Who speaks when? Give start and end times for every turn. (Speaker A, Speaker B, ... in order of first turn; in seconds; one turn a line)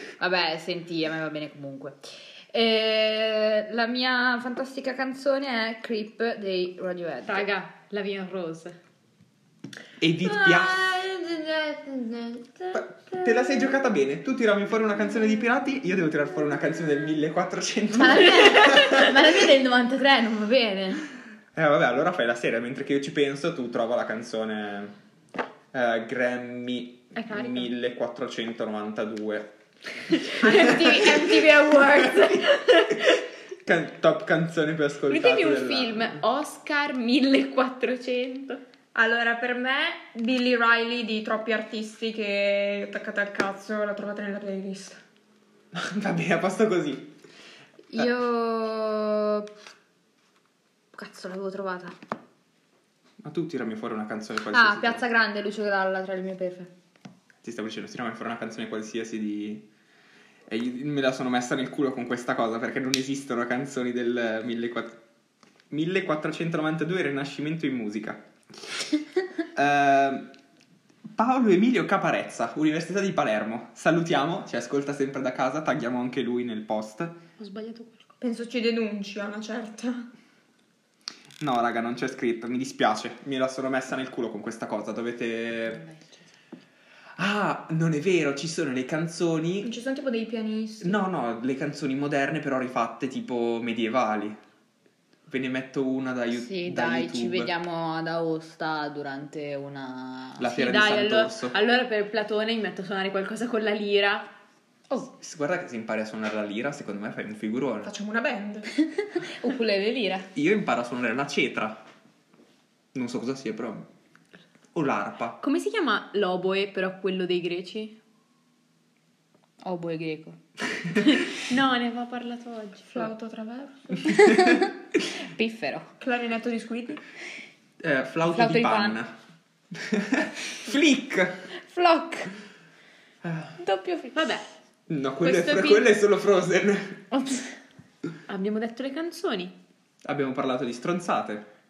Speaker A: 0.2-7.5
Speaker B: 7.2-8.8
Speaker C: 10.0-10.9
Speaker A: 10.9-11.4
Speaker D: 11.2-12.2
Speaker A: 12.3-12.8
Speaker C: 12.7-19.4
Speaker A: 17.9-21.1
Speaker C: 21.5-24.9
Speaker C: 25.7-29.5
Speaker B: 27.1-27.7
Speaker B: 30.1-33.2
Speaker C: 30.4-32.3
Speaker C: 33.6-36.2
Speaker B: 35.1-38.6
Speaker D: 39.0-45.0
Speaker C: 45.7-47.1
Speaker A: 47.9-49.5
Speaker A: 50.9-52.0
Speaker C: 53.2-55.0
Speaker A: 54.5-56.7
Speaker C: 57.4-59.7
Speaker C: 60.5-65.0
Speaker C: 65.7-68.2
Speaker C: 69.5-70.3
Speaker C: 71.2-77.2
Speaker B: 77.4-78.1
Speaker D: 78.2-80.1
Speaker C: 81.4-85.8
Speaker A: 85.7-86.2
Speaker C: 87.2-89.7
Speaker D: 89.6-91.0
Speaker C: 90.8-94.4
Speaker C: 95.3-97.5
Speaker A: 96.3-100.5
Speaker C: 100.4-101.6
Speaker B: 100.5-104.3
Speaker C: 105.0-107.9
Speaker D: 107.8-108.7
Speaker A: 108.9-110.3
Speaker C: 110.3-111.8
Speaker C: 112.9-113.9
Speaker C: 114.7-115.4
Speaker B: 115.4-118.0
Speaker A: 119.6-120.4
Speaker B: 121.1-123.1
Speaker D: 122.9-124.2
Speaker A: 124.0-124.7
Speaker A: 125.3-125.9
Speaker D: 126.0-127.0
Speaker C: 127.8-129.1
Speaker A: 128.3-129.0
Speaker C: 129.7-131.5
Speaker A: 131.6-132.3
Speaker C: 133.2-133.6
Speaker A: 133.6-134.3
Speaker B: 134.1-134.4
Speaker C: 134.9-137.0
Speaker B: 135.2-135.9
Speaker A: 137.1-137.5
Speaker B: 138.3-139.6
Speaker C: 140.0-141.5